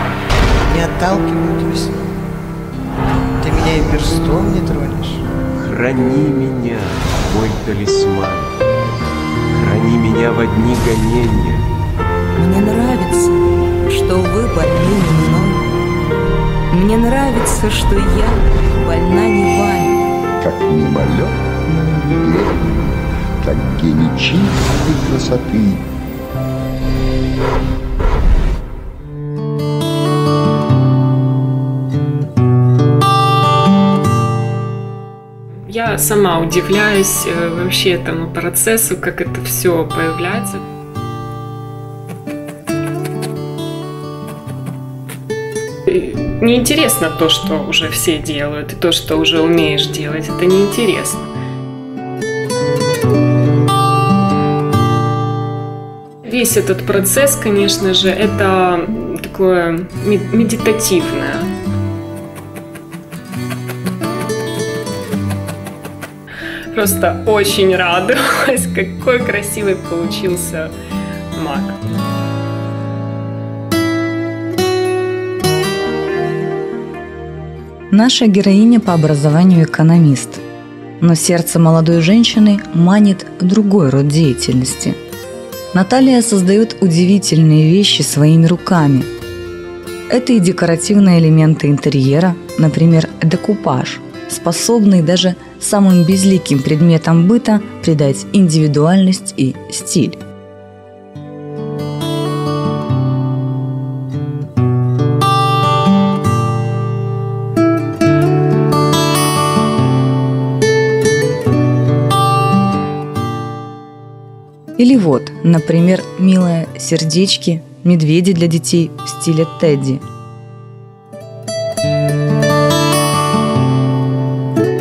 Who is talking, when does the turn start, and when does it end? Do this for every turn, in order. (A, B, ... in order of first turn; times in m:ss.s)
0:00.7-0:02.0 A
0:03.4-0:05.2 A
0:05.6-0:08.5 B
0:09.5-0:11.6 B
0:12.4-0:15.7 C
0:16.7-0:20.0 C
0:20.4-0:25.8 D
0:35.7-0:40.6 E
0:45.9-0:51.2 E
0:56.2-1:01.5 E
1:06.7-1:10.7 E
1:11.3-1:11.8 E
1:17.9-1:20.4 C
1:21.0-1:25.0 C
1:25.7-1:29.1 C
1:30.1-1:40.2 C
1:54.8-2:00.0 C